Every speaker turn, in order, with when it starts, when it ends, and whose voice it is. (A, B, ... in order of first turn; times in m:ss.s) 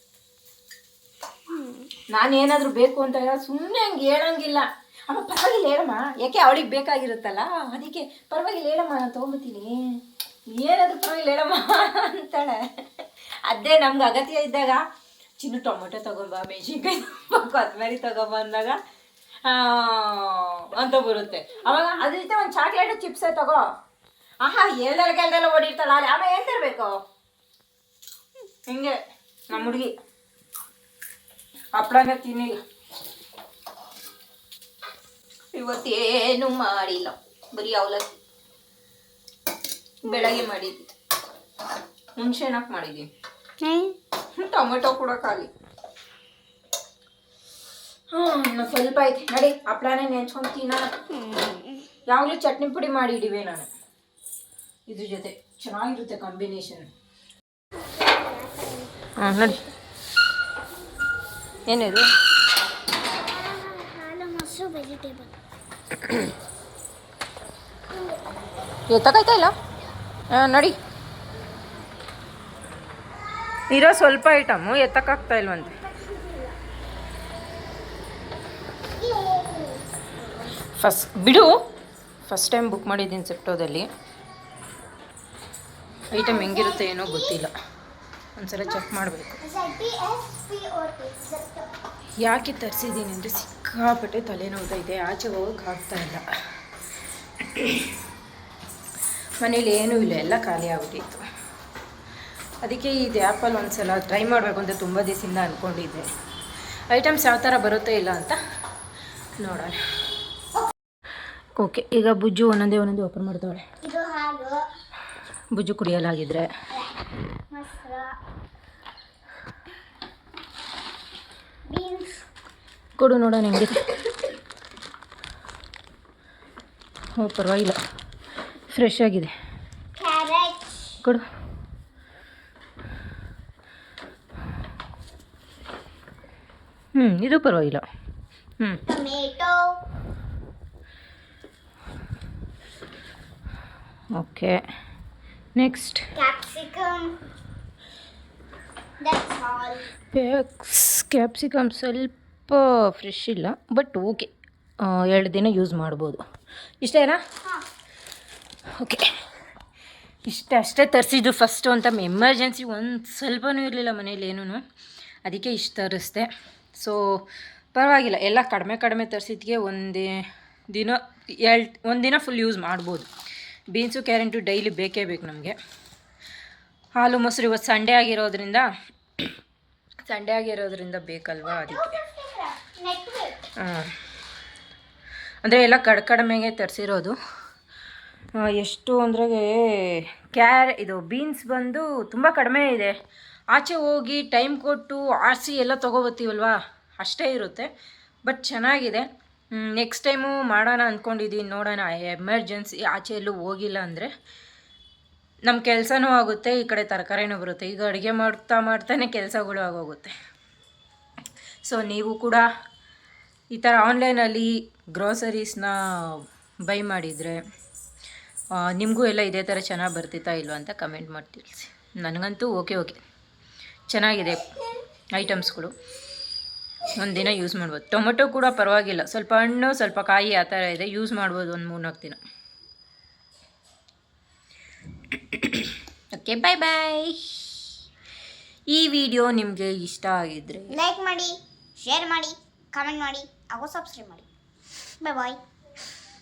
0:01.5-0:01.9 A
0:02.1-0:09.7 B
0:10.5-0:14.8 B
0:15.4-0:18.8 B
0:19.4-0:23.6 B
0:24.4-0:27.0 B
0:28.7-0:29.0 B
0:29.5-0:29.9 B
0:31.8-0:32.6 B
0:35.5-0:38.2 B
0:40.0-0:40.9 B
0:40.1-0:40.4 A
0:42.2-0:43.1 B
0:43.6-0:44.0 A
0:44.4-0:45.5 B
0:48.1-0:50.8 B
0:51.1-0:51.9 A
0:52.1-0:53.7 B
0:54.9-0:56.9 B
0:57.7-0:59.7 A
0:59.2-0:59.6 B
1:01.7-1:02.0 B
1:03.1-1:05.3 A
1:05.9-1:06.3 B
1:07.9-1:08.6 A
1:08.9-1:09.5 B
1:10.3-1:10.8 B
1:13.7-1:15.8 B
1:15.6-1:16.6 A
1:19.0-1:19.8 A
1:20.8-1:21.5 B
1:22.3-1:23.9 B
1:26.1-1:27.5 B
1:26.1-1:27.4 A
1:28.4-1:29.4 B
1:29.4-1:31.7 A
1:32.2-1:36.2 B
1:37.4-1:37.9 B
1:39.4-1:41.2 B
1:42.6-1:46.1 B
1:46.9-1:48.4 B
1:49.4-1:49.8 B
1:51.6-1:53.6 B
1:53.8-1:54.6 A
1:55.5-1:56.5 B
1:57.5-1:58.1 A
2:01.7-2:02.2 A
2:03.0-2:03.8 B
2:07.1-2:07.8 B
2:08.7-2:09.3 B
2:10.0-2:11.0 A
2:16.9-2:17.8 B
2:18.9-2:19.8 A
2:24.1-2:24.6 B
2:25.6-2:26.0 B
2:26.2-2:27.2 A
2:29.0-2:29.9 A
2:30.1-2:34.3 B
2:34.8-2:36.2 B
2:36.8-2:37.2 B
2:38.8-2:39.0 B
2:40.3-2:44.6 B
2:45.2-2:47.0 B
2:47.7-2:50.1 B
2:50.7-2:53.1 B
2:53.7-2:55.6 B
2:57.0-2:58.7 B
3:00.1-3:02.0 B
3:01.4-3:03.5 A
3:03.6-3:03.9 B
3:05.4-3:07.1 B
3:08.4-3:12.9 B
3:13.5-3:17.7 B
3:18.2-3:24.1 B
3:25.4-3:30.1 B
3:31.6-3:32.4 B
3:33.5-3:37.4 B
3:38.6-3:43.0 B
3:43.9-3:44.5 B
3:45.1-3:45.7 B
3:47.0-3:52.2 B
3:55.3-3:57.6 B
3:58.7-4:00.8 B
4:00.7-4:04.2 A
4:05.0-4:05.4 A